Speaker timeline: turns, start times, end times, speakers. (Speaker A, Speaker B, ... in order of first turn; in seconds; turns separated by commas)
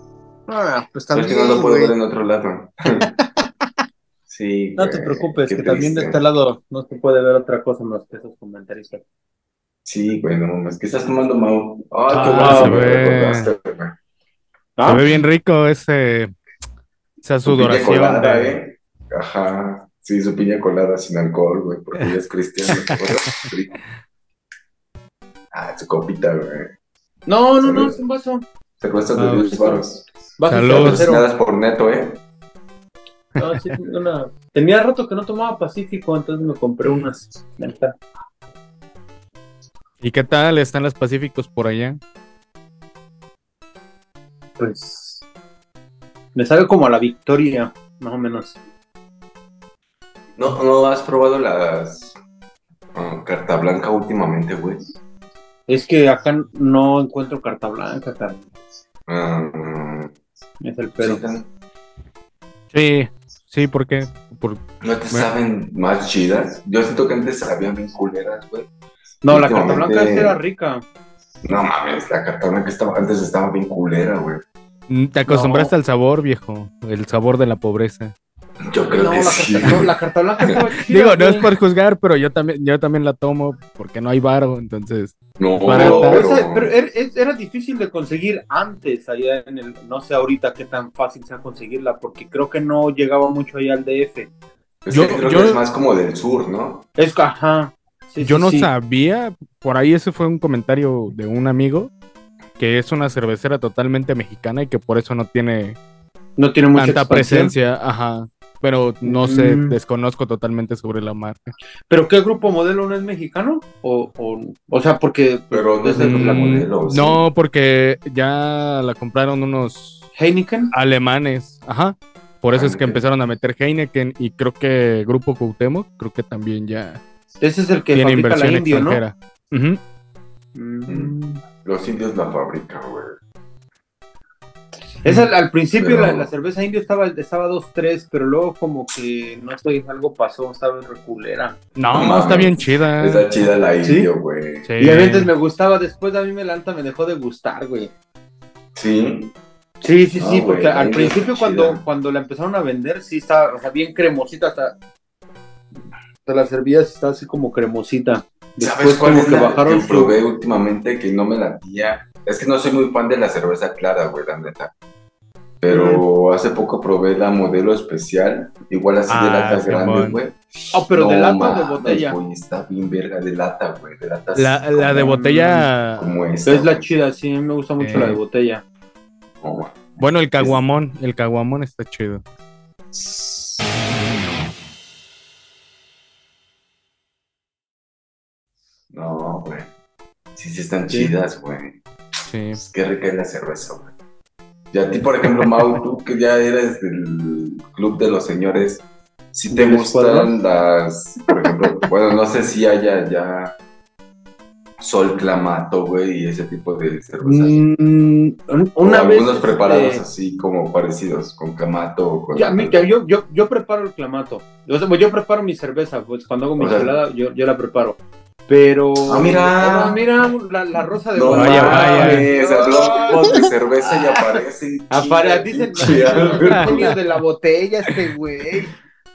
Speaker A: 0.5-2.0, Speaker B: 1.1-3.1, Speaker A: 3.0-3.5, Speaker B: 4.3-6.2, Speaker A: 4.8-9.0, Speaker B: 9.8-14.0, Speaker A: 12.1-12.9, Speaker C: 12.1-13.5, Speaker A: 14.8-15.0, Speaker C: 14.9-16.3, Speaker C: 17.2-18.6, Speaker B: 17.4-23.8, Speaker C: 22.7-23.4, Speaker B: 25.5-26.7, Speaker A: 27.3-28.5, Speaker B: 27.6-28.0, Speaker B: 28.8-30.1, Speaker C: 29.1-29.7, Speaker A: 30.4-31.2, Speaker C: 30.5-31.1, Speaker B: 30.7-32.2, Speaker C: 33.4-33.8, Speaker A: 33.4-38.0, Speaker C: 40.0-42.0, Speaker A: 44.6-45.2, Speaker A: 46.4-48.6, Speaker B: 50.4-52.2, Speaker B: 52.9-54.9, Speaker A: 55.7-58.5, Speaker B: 59.1-60.1, Speaker A: 60.6-61.2, Speaker B: 61.0-61.5, Speaker C: 62.7-65.3, Speaker B: 64.8-68.7, Speaker A: 69.2-70.8, Speaker B: 69.3-70.4, Speaker B: 71.4-74.4, Speaker C: 74.9-78.1, Speaker A: 75.3-75.7, Speaker B: 78.7-79.9, Speaker A: 78.9-81.5, Speaker C: 80.9-86.2, Speaker B: 85.4-86.7, Speaker A: 85.7-94.3, Speaker B: 94.8-96.9, Speaker C: 94.9-95.6, Speaker A: 97.0-98.7, Speaker C: 98.2-101.9, Speaker C: 102.6-105.8, Speaker A: 106.4-107.5, Speaker C: 106.8-111.5, Speaker A: 109.0-109.8, Speaker A: 111.9-116.5, Speaker B: 115.5-117.2, Speaker C: 116.0-120.1, Speaker A: 120.2-120.7, Speaker C: 120.7-127.0, Speaker B: 122.5-123.0, Speaker A: 127.4-129.0, Speaker C: 127.9-129.8, Speaker A: 130.6-131.4, Speaker B: 130.9-133.2, Speaker A: 135.0-141.6, Speaker B: 135.8-136.3, Speaker C: 141.8-143.3, Speaker B: 141.9-144.7, Speaker A: 143.8-144.1, Speaker C: 144.7-145.3, Speaker A: 144.8-147.9, Speaker B: 148.8-149.3, Speaker A: 149.8-154.8, Speaker B: 150.2-151.8, Speaker A: 156.2-160.2, Speaker B: 158.6-164.7, Speaker B: 165.6-170.4, Speaker A: 165.7-166.1, Speaker C: 169.1-170.2, Speaker A: 170.7-172.2, Speaker B: 170.9-175.2, Speaker C: 174.3-176.1, Speaker A: 175.0-175.7, Speaker B: 175.9-176.9, Speaker A: 176.4-178.6, Speaker C: 177.8-178.2, Speaker B: 179.4-180.6, Speaker C: 180.0-182.2, Speaker B: 182.9-183.6, Speaker B: 188.9-189.7, Speaker B: 190.4-191.8, Speaker C: 192.3-192.6, Speaker B: 192.6-193.9, Speaker B: 194.7-203.6, Speaker A: 199.5-200.3, Speaker B: 204.8-207.6, Speaker A: 207.2-210.0, Speaker B: 208.8-212.9, Speaker A: 212.3-224.3, Speaker B: 216.6-216.9, Speaker B: 219.1-220.0, Speaker B: 221.1-226.9, Speaker C: 221.3-222.3, Speaker A: 224.9-228.7